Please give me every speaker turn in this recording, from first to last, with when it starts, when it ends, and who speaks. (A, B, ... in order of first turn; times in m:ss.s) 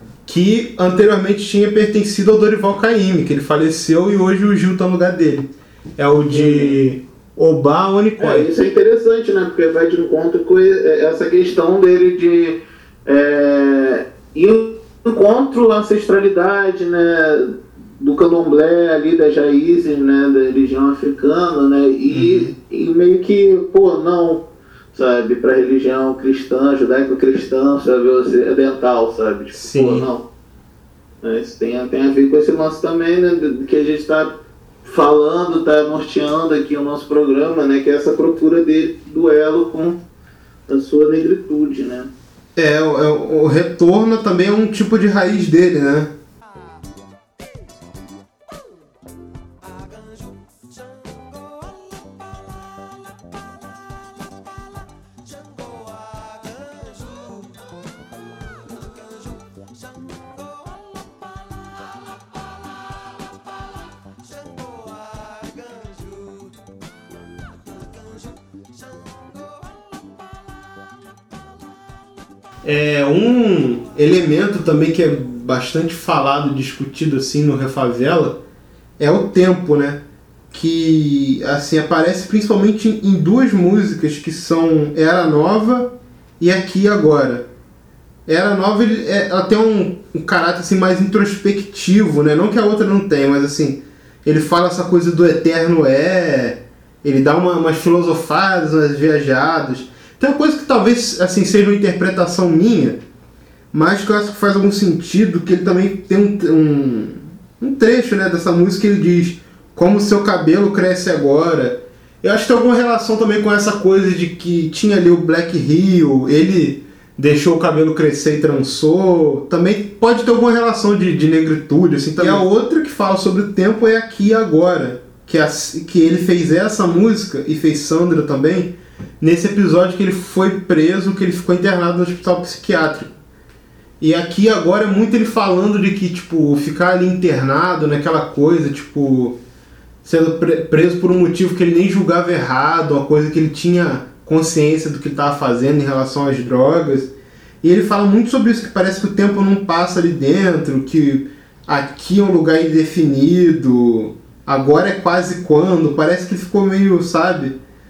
0:00.3-0:08.5 A
0:06.3-0:06.8 B
0:08.2-0:30.2 B
0:22.1-0:22.5 A
0:29.5-0:30.1 A
0:31.2-0:40.0 B
0:40.7-0:42.1 B
0:42.6-0:46.1 A
1:12.6-1:18.4 A
1:19.0-1:27.5 A
1:28.3-1:43.0 A
1:43.7-2:13.1 A
2:02.2-2:02.4 B
2:14.0-2:19.4 A
2:20.0-2:37.6 A